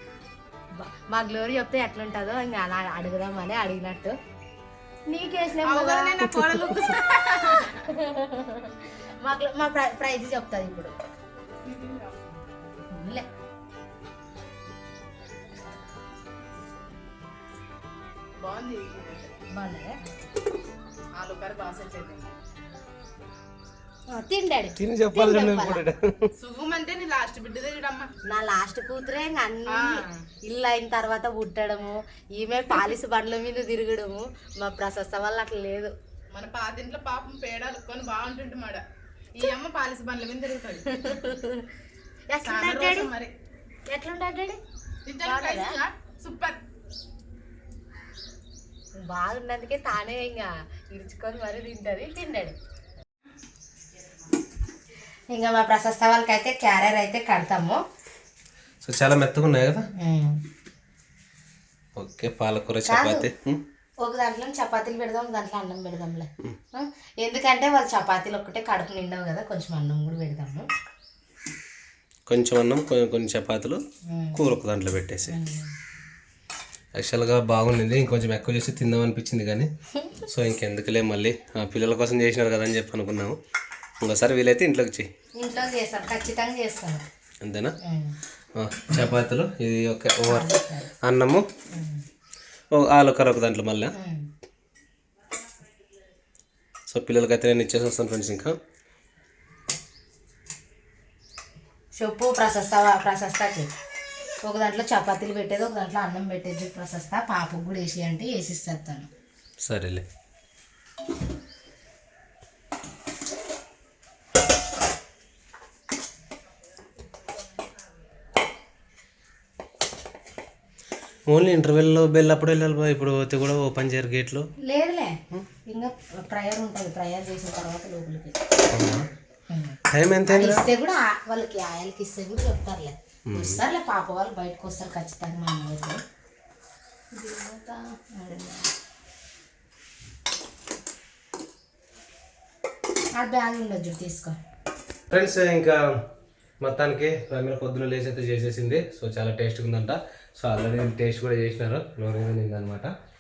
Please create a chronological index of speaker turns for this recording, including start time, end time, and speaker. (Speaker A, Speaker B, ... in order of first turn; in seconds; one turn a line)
Speaker A: 0.7-4.2
Speaker A: 5.1-6.3
Speaker B: 5.6-7.9
Speaker A: 7.9-11.0
Speaker B: 11.6-12.7
Speaker A: 12.9-13.3
Speaker B: 18.4-19.4
Speaker A: 19.5-20.0
Speaker B: 21.2-22.3
Speaker A: 24.1-25.8
Speaker C: 24.8-26.3
Speaker B: 26.4-28.1
Speaker A: 28.3-35.9
Speaker B: 29.7-30.2
Speaker B: 36.3-41.3
Speaker A: 40.9-41.7
Speaker A: 42.3-43.1
Speaker B: 42.4-43.3
Speaker A: 43.9-44.6
Speaker B: 45.1-46.6
Speaker A: 45.2-45.8
Speaker A: 49.0-52.6
Speaker A: 55.3-57.8
Speaker C: 58.8-59.9
Speaker A: 60.0-60.4
Speaker C: 62.0-63.6
Speaker A: 62.9-63.3
Speaker A: 64.0-70.7
Speaker C: 72.3-73.8
Speaker A: 74.1-74.5
Speaker C: 74.3-75.4
Speaker A: 75.3-75.8
Speaker C: 77.0-79.7
Speaker A: 80.0-80.2
Speaker C: 80.2-83.4
Speaker C: 84.0-85.1
Speaker A: 85.4-87.0
Speaker C: 87.4-87.8
Speaker A: 87.8-88.2
Speaker C: 88.6-91.5
Speaker A: 90.2-90.9
Speaker A: 91.7-92.0
Speaker C: 92.7-93.9
Speaker A: 94.0-94.3
Speaker C: 96.9-98.6
Speaker A: 102.0-103.7
Speaker A: 104.4-109.1
Speaker C: 109.6-110.1
Speaker C: 121.3-124.5
Speaker A: 124.6-128.5
Speaker C: 128.7-129.1
Speaker A: 129.5-136.0
Speaker C: 129.9-130.7
Speaker C: 133.3-133.6
Speaker A: 137.1-138.7
Speaker A: 143.2-144.4
Speaker C: 145.1-146.0
Speaker C: 146.6-152.9